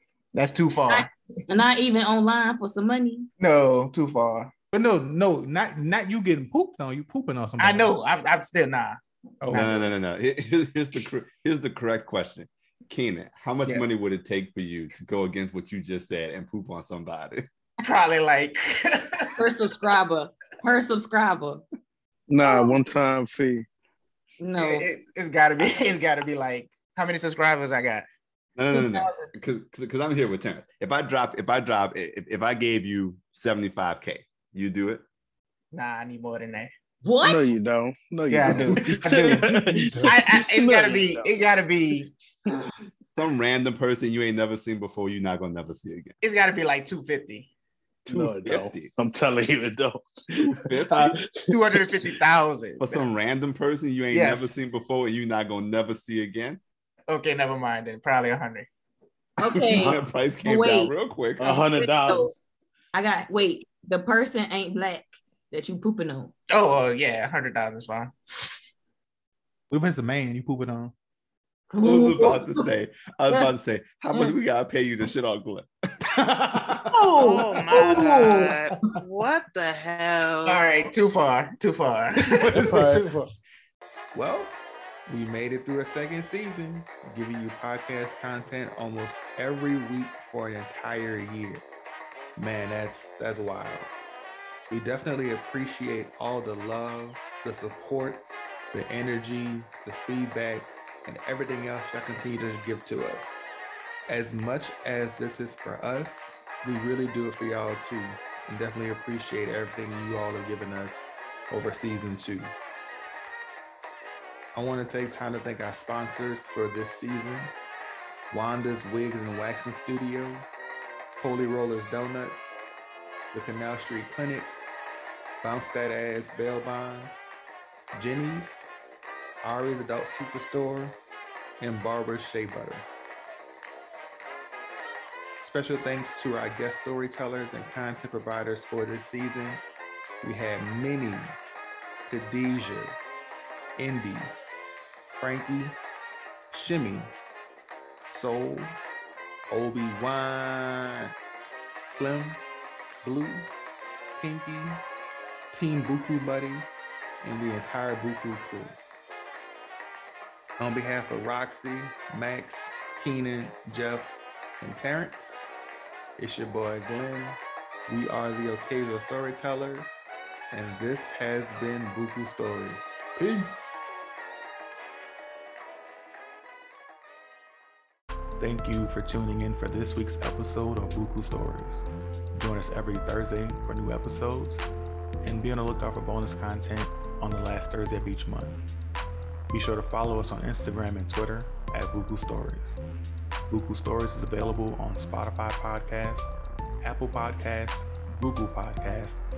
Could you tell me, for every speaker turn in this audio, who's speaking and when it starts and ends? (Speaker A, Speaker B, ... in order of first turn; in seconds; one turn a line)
Speaker A: 0.3-1.1
Speaker B: 0.9-3.3
Speaker A: 3.4-4.5
Speaker C: 4.7-7.9
Speaker A: 7.6-9.9
Speaker C: 9.4-9.7
Speaker D: 9.5-17.5
Speaker A: 17.8-19.4
Speaker B: 19.4-21.6
Speaker E: 22.3-23.6
Speaker B: 22.4-22.8
Speaker B: 24.4-24.9
Speaker A: 24.6-28.0
Speaker D: 28.6-35.0
Speaker B: 28.7-29.3
Speaker A: 35.7-36.7
Speaker B: 37.0-37.5
Speaker E: 37.2-41.4
Speaker A: 38.3-42.1
Speaker C: 38.8-40.1
Speaker D: 43.1-46.1
Speaker A: 46.2-47.5
Speaker E: 48.0-51.8
Speaker D: 48.1-48.9
Speaker D: 50.3-51.2
Speaker A: 51.5-53.0
Speaker D: 52.8-56.6
Speaker A: 54.1-54.5
Speaker A: 57.1-58.7
Speaker B: 59.4-62.3
Speaker D: 59.6-61.6
Speaker E: 59.7-60.0
Speaker E: 61.4-62.4
Speaker B: 62.9-66.3
Speaker A: 66.5-68.1
Speaker C: 69.7-70.9
Speaker B: 71.7-72.7
Speaker D: 71.8-75.7
Speaker C: 76.2-76.9
Speaker B: 76.9-78.5
Speaker F: 77.2-80.6
Speaker A: 80.4-83.1
Speaker C: 82.2-83.3
Speaker C: 84.1-91.6
Speaker C: 92.3-93.9
Speaker C: 94.7-103.4
Speaker C: 104.1-112.5
Speaker C: 114.5-117.5
Speaker C: 118.3-120.5
Speaker C: 121.2-122.6
Speaker C: 123.3-124.5
Speaker C: 125.4-127.2
Speaker C: 127.9-128.7
Speaker C: 129.4-131.0
Speaker C: 131.6-132.8
Speaker C: 135.4-139.6
Speaker C: 140.2-141.3
Speaker C: 142.1-143.0
Speaker C: 143.8-144.3
Speaker C: 145.1-145.8
Speaker C: 146.5-147.1
Speaker C: 148.1-148.8
Speaker C: 149.5-151.1
Speaker C: 151.9-152.4
Speaker C: 153.0-153.5
Speaker C: 154.2-154.8
Speaker C: 155.5-156.7
Speaker C: 157.2-158.8
Speaker C: 160.6-165.5
Speaker C: 166.2-173.8
Speaker C: 178.4-184.7
Speaker C: 185.2-188.6
Speaker C: 189.5-192.8
Speaker C: 193.5-196.3
Speaker C: 196.8-199.2